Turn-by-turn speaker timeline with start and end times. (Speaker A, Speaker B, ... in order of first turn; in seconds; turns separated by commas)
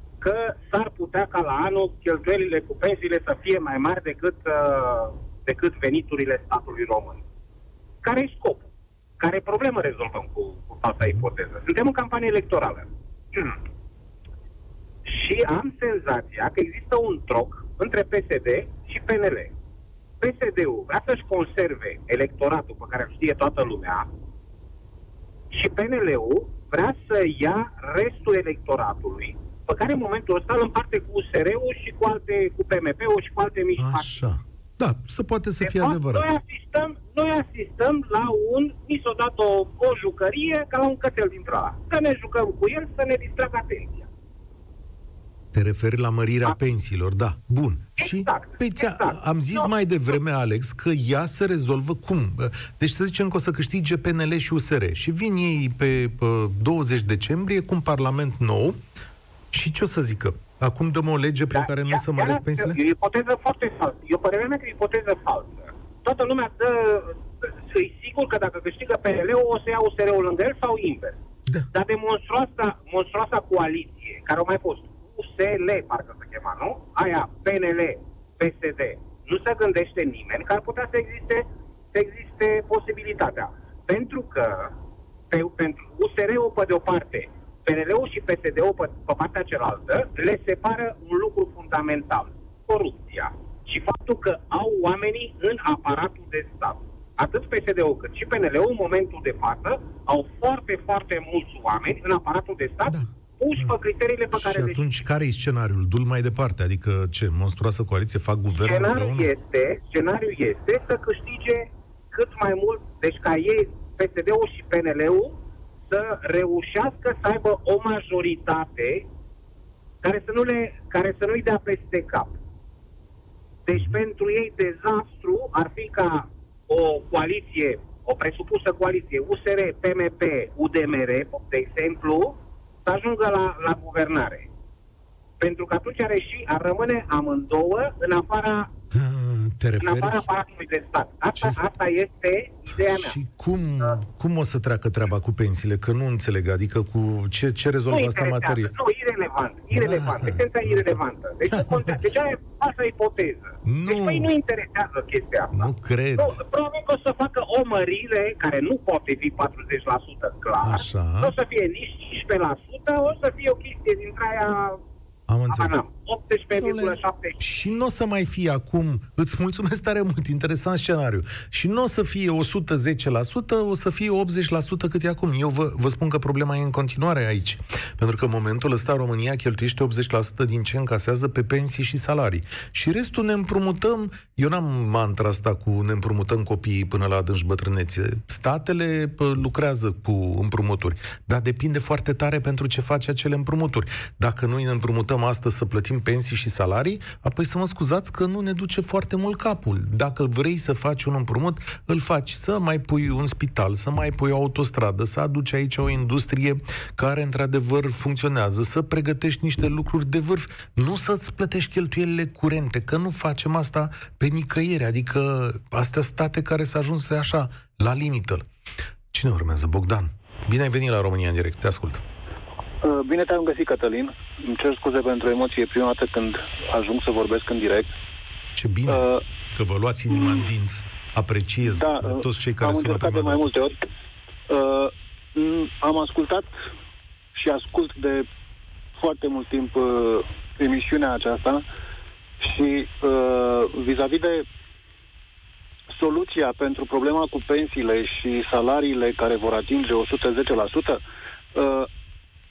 Speaker A: 0.2-7.2, Speaker A: 8.0-8.7, Speaker A: 9.2-13.6, Speaker A: 15.0-19.5, Speaker A: 20.2-24.1, Speaker A: 25.5-34.2, Speaker B: 33.8-36.3, Speaker A: 35.6-44.1, Speaker B: 45.5-58.8, Speaker A: 48.0-49.7, Speaker B: 59.5-62.8, Speaker A: 61.5-71.2, Speaker A: 71.7-84.7, Speaker A: 85.3-104.8, Speaker B: 102.9-103.8, Speaker B: 104.3-109.3, Speaker A: 108.5-115.4, Speaker A: 115.9-119.1, Speaker A: 120.0-122.3, Speaker A: 123.7-134.5, Speaker A: 135.4-138.7, Speaker B: 138.9-140.3, Speaker A: 139.8-143.2, Speaker B: 141.3-141.6, Speaker B: 142.8-148.7, Speaker A: 147.9-164.8, Speaker B: 149.7-152.0, Speaker B: 153.6-154.3, Speaker B: 155.5-156.4, Speaker B: 160.6-161.4, Speaker B: 165.3-165.8, Speaker A: 165.5-167.4, Speaker B: 166.6-218.4, Speaker B: 219.1-222.0, Speaker C: 222.8-227.9, Speaker B: 228.5-233.5, Speaker C: 228.9-229.2, Speaker C: 230.1-230.4, Speaker C: 231.7-233.8, Speaker C: 234.5-236.5, Speaker C: 237.3-238.2, Speaker C: 239.0-241.6, Speaker C: 242.4-244.4, Speaker C: 245.9-251.0, Speaker C: 251.5-251.9